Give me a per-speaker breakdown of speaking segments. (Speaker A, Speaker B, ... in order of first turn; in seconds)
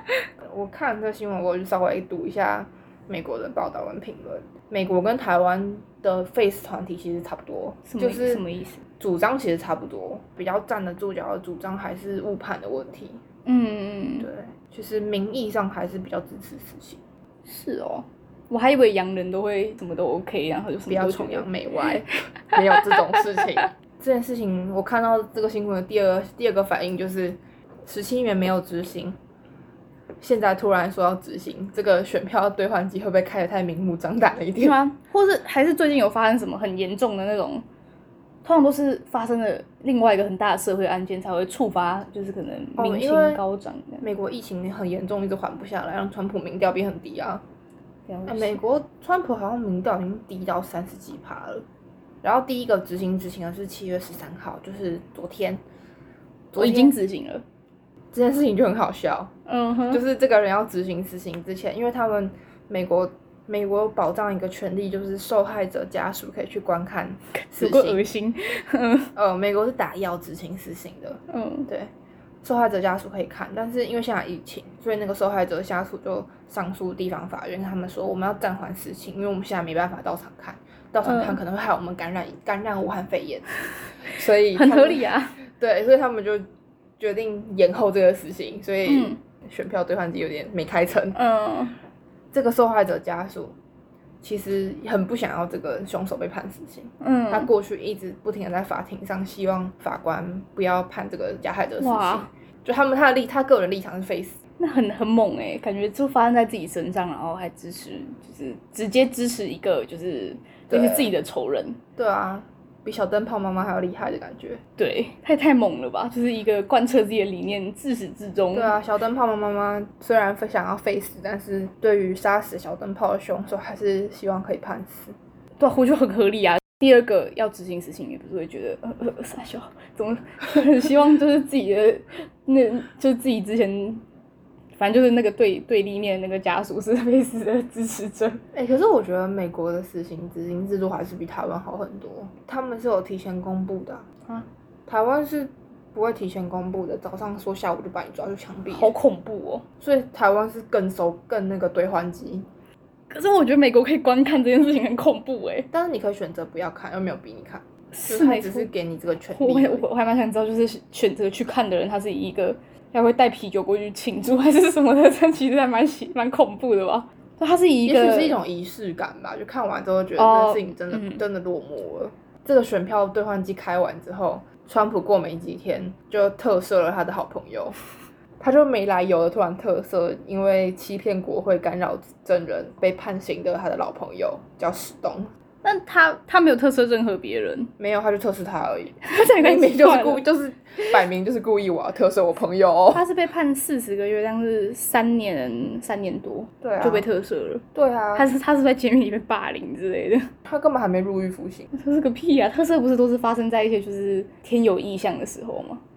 Speaker A: 0.4-8.4, 9.0-13.2, 14.2-17.0, 20.9-29.2, 30.2-34.8, 42.8-43.4, 44.0-47.4, 48.3-51.6, 52.2-55.6, 56.5-57.0, 58.1-59.3, 59.9-68.0, 69.2-71.9, 72.4-83.5, 84.0-86.4, 87.0-91.2, 92.3-93.5, 94.2-104.4, 110.7-111.1, 112.0-114.6, 118.5-125.2, 138.5-144.1, 144.9-148.9, 149.8-152.4, 155.7-159.9, 167.8-177.8, 178.4-185.3, 187.8-193.0, 196.6-197.1, 197.7-198.3, 200.4-201.7
Speaker B: 7.9-8.8, 13.5-14.3, 17.5-21.5, 34.6-37.6, 38.4-44.0, 48.1-48.6, 56.6-57.4, 59.5-60.0, 67.5-69.1, 71.3-71.7, 81.0-81.4, 84.5-85.4, 88.9-89.2, 91.2-91.8, 97.0-97.5, 101.8-102.3, 104.6-111.8, 114.8-118.8, 125.6-134.0, 134.8-138.4, 148.7-149.7, 153.1-155.7, 157.9-158.7, 159.3-168.4, 170.2-171.2, 185.6-187.7, 189.0-190.2, 192.9-197.6, 198.2-200.3, 201.7-205.8